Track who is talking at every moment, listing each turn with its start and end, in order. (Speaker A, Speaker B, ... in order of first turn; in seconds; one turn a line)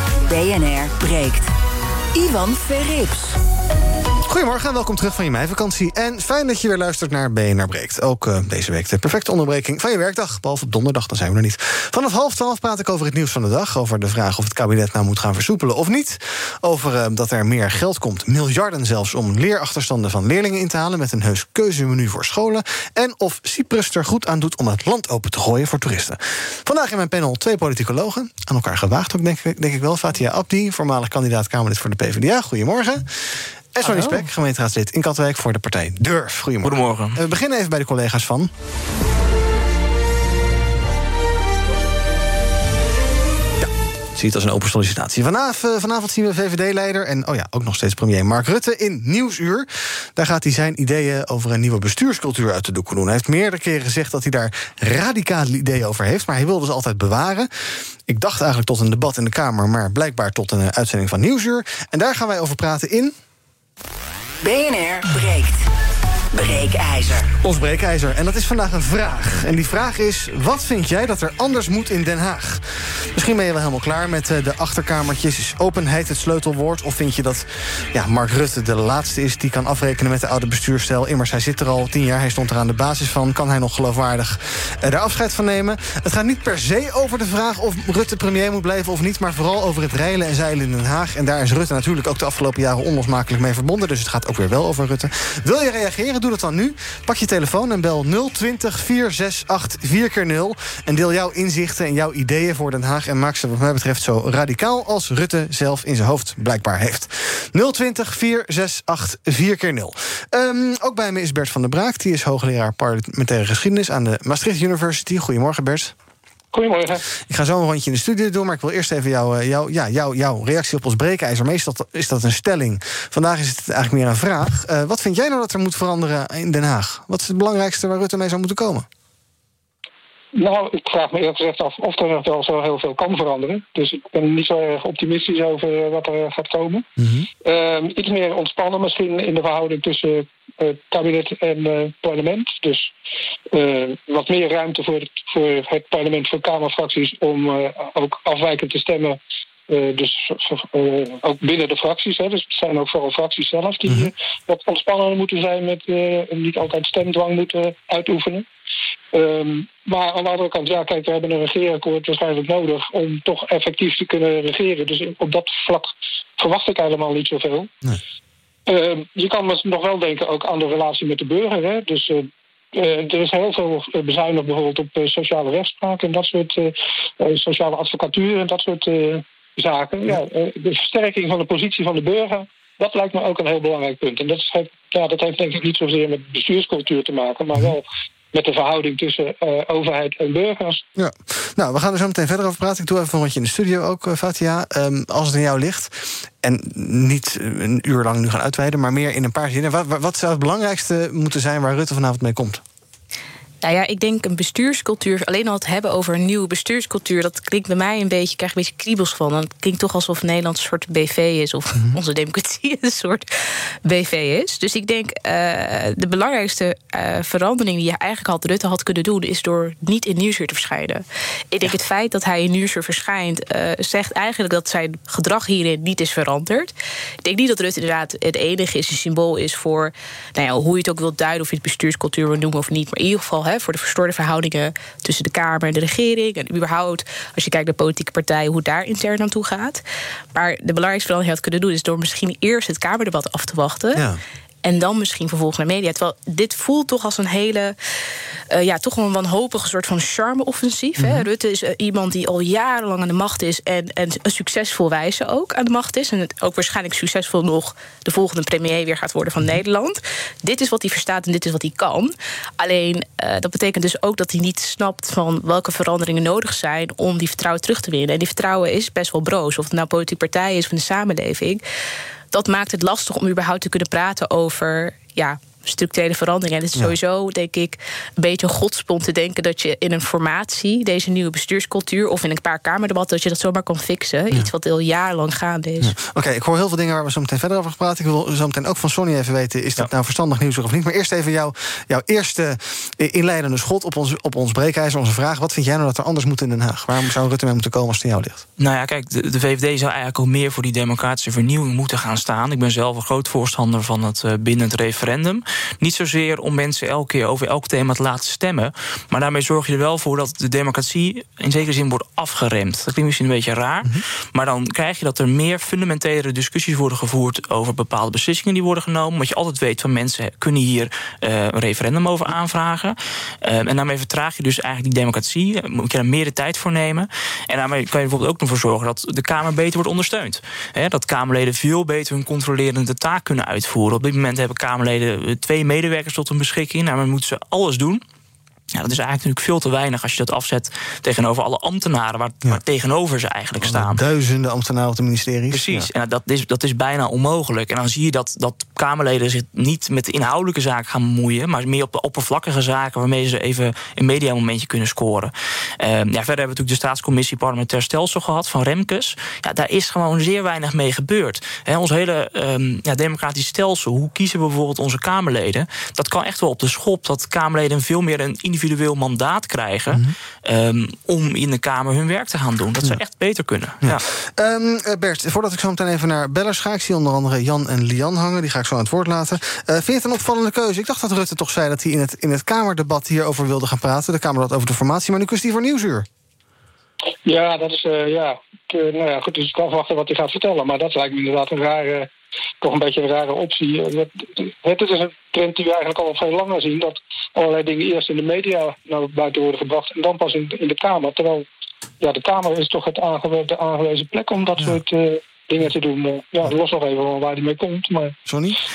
Speaker A: 0.3-1.5
Speaker A: 2.1-3.4
Speaker B: 4.3-33.2
Speaker B: 33.8-38.5
Speaker C: 36.6-37.2
Speaker B: 43.6-57.5
Speaker B: 58.1-63.1
Speaker A: 64.4-65.6
Speaker A: 66.3-67.3
Speaker B: 67.4-72.6
Speaker B: 73.1-115.9
Speaker D: 116.5-117.0
Speaker B: 117.3-128.9
Speaker D: 130.3-136.9
Speaker B: 137.0-137.3
Speaker D: 137.4-142.9
Speaker D: 143.5-149.2
Speaker D: 149.7-158.5
Speaker D: 159.1-167.7
Speaker D: 168.7-190.8
Speaker B: 191.0-202.6
Speaker E: 203.6-213.3
Speaker E: 213.8-226.7
Speaker E: 227.2-239.8
Speaker E: 240.3-244.1
Speaker B: 243.9-244.2
Speaker E: 244.6-247.8
Speaker E: 248.5-271.6
Speaker B: 251.0-251.3
Speaker E: 272.3-285.9
Speaker B: 285.8-298.4
Speaker C: 298.6-338.0
Speaker C: 338.7-344.0
Speaker B: 343.6-345.9
Speaker C: 345.5-374.0
Speaker B: 373.8-386.1
Speaker D: 387.3-392.1
Speaker D: 392.6-401.5
Speaker D: 402.0-408.2
Speaker B: 408.3-408.6